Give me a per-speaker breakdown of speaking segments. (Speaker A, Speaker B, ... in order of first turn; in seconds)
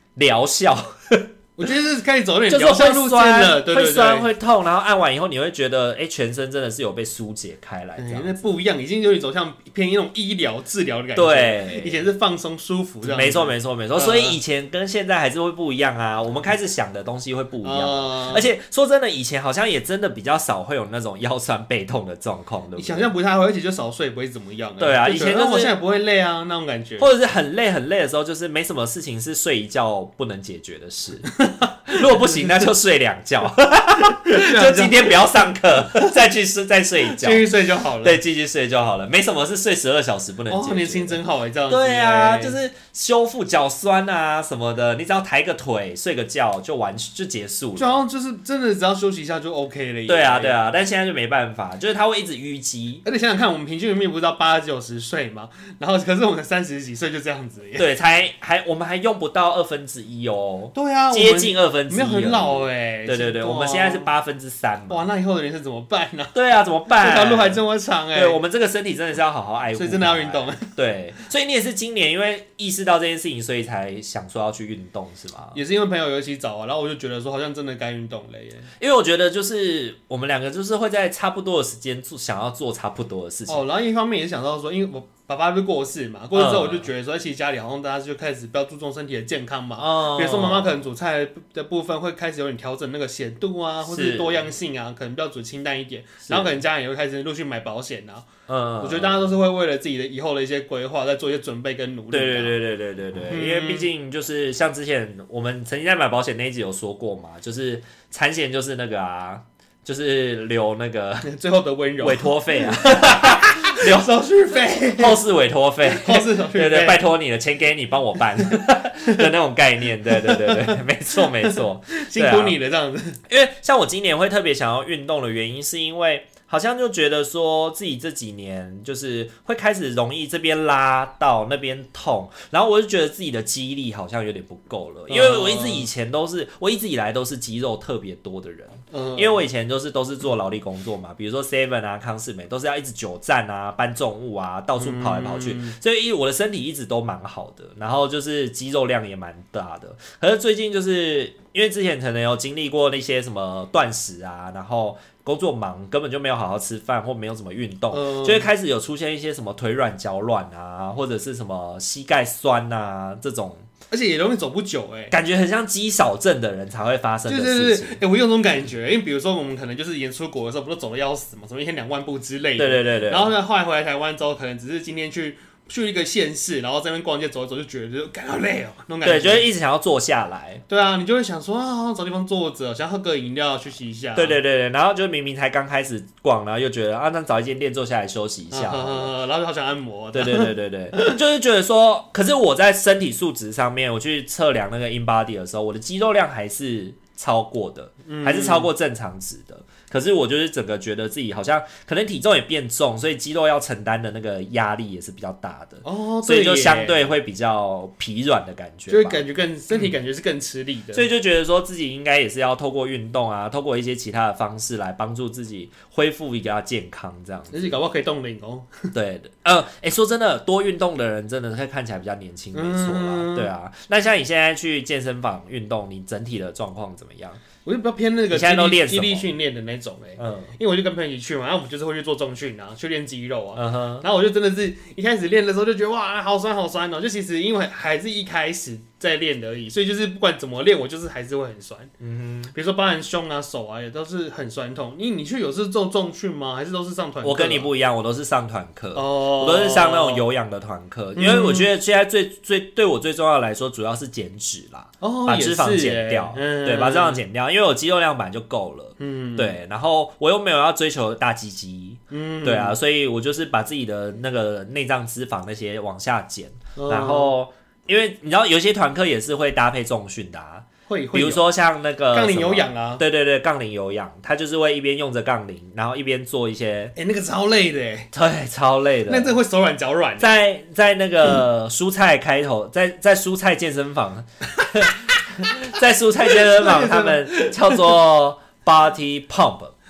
Speaker A: 0.1-1.3, 2.5-8.4, 11.2-12.1, 13.0-23.1, 24.8-25.7, 27.0-31.3, 31.9-37.5, 38.0-48.0, 50.1-53.0, 57.8-65.1, 66.3-67.6, 68.1-75.6, 78.8-83.6, 86.3-86.8, 89.8-90.7, 93.9-94.4, 96.2-96.5, 98.5-99.3, 102.1-111.3, 112.0-114.1, 114.9-122.5, 123.3-163.7, 165.1-168.0, 172.6-173.3, 179.0-180.6, 184.2-189.1, 190.1-209.2, 210.9-217.8, 218.9-227.4, 228.3-229.3, 230.2-230.5, 233.6-234.0, 242.0-242.5, 247.2-276.9, 278.1-279.3, 280.2-289.7
Speaker B: 1.6-4.3, 8.0-14.4, 17.6-18.4, 22.8-27.1, 31.4-32.6, 34.0-36.1, 37.0-38.2, 40.5-42.6, 47.8-50.6, 53.0-57.9, 60.7-64.1, 64.9-66.3, 66.9-68.4, 69.8-70.7, 75.5-78.7, 83.5-98.2, 98.8-102.5, 103.3-103.9, 111.2-115.2, 115.8-117.0, 120.1-123.2, 135.1-135.9, 138.9-139.4, 144.8-145.7, 157.9-158.5, 163.9-165.1, 167.3-179.5, 180.7-184.4, 188.5-191.2, 198.0-198.7, 205.8-207.1, 208.9-211.1, 217.5-218.9, 222.5-223.5, 227.6-241.9, 242.5-247.7, 248.9-250.3, 251.2-251.7, 255.0-257.2, 259.0-259.6, 262.1-262.8, 266.8-267.3, 270.9-271.4, 272.1-273.0, 276.9-278.1, 279.1-280.3, 286.3-287.9